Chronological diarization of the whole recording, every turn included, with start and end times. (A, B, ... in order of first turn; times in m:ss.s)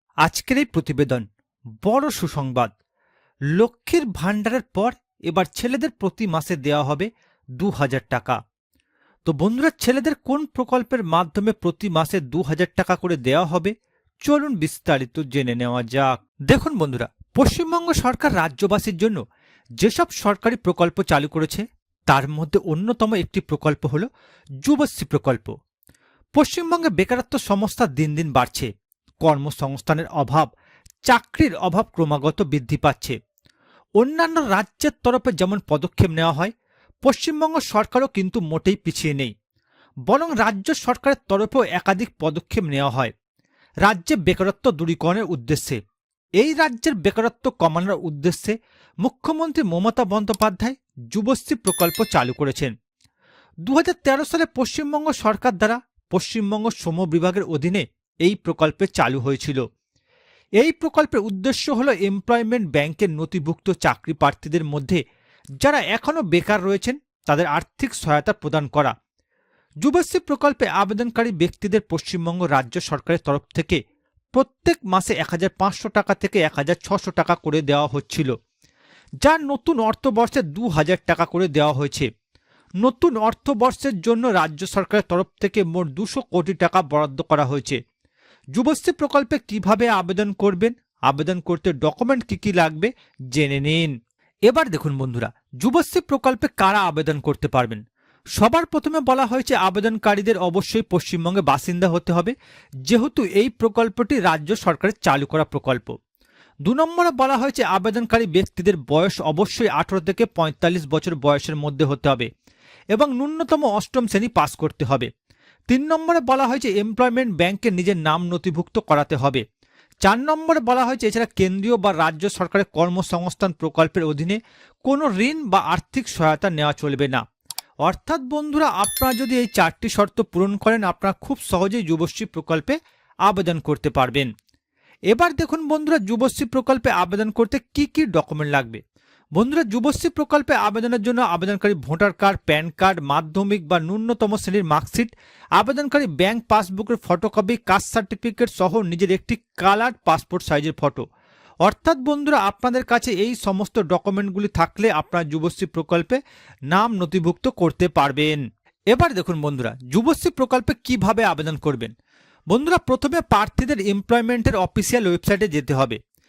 0:00.2-0:01.2 A
0:01.8-0:02.7 A
0:03.5-0:07.1 A
0:07.6-0:08.4 A
0:09.2-0:13.7 A
0:14.2-0:19.2 A
0:19.8-0:24.1 A
0:24.6-0:25.5 A
0:26.4-0:28.7 A
0:29.2-0:30.5 A
0:31.1-0:33.2 A
0:34.0-0:36.5 A
0:37.0-0:39.3 A
0:40.1-0:43.1 A
0:43.8-0:45.8 A
0:46.4-0:52.7 A
0:53.6-0:59.6 A
1:00.6-1:05.0 A
1:05.6-1:08.9 A
1:09.8-1:13.8 A
1:14.3-1:18.3 A
1:19.2-1:22.1 A
1:22.8-1:27.8 A
1:28.5-1:33.9 A
1:34.5-1:37.8 A
1:38.4-1:42.3 A
1:42.9-1:45.9 A
1:46.6-1:52.3 A
1:52.9-1:55.1 A
1:55.7-1:59.4 A
2:00.0-2:07.2 A
2:07.8-2:12.7 A
2:13.2-2:14.3 A
2:15.1-2:18.8 A
2:19.4-2:31.0 A
2:31.6-2:36.2 A
2:36.7-2:38.4 A
2:38.9-2:41.9 A
2:42.5-2:46.0 A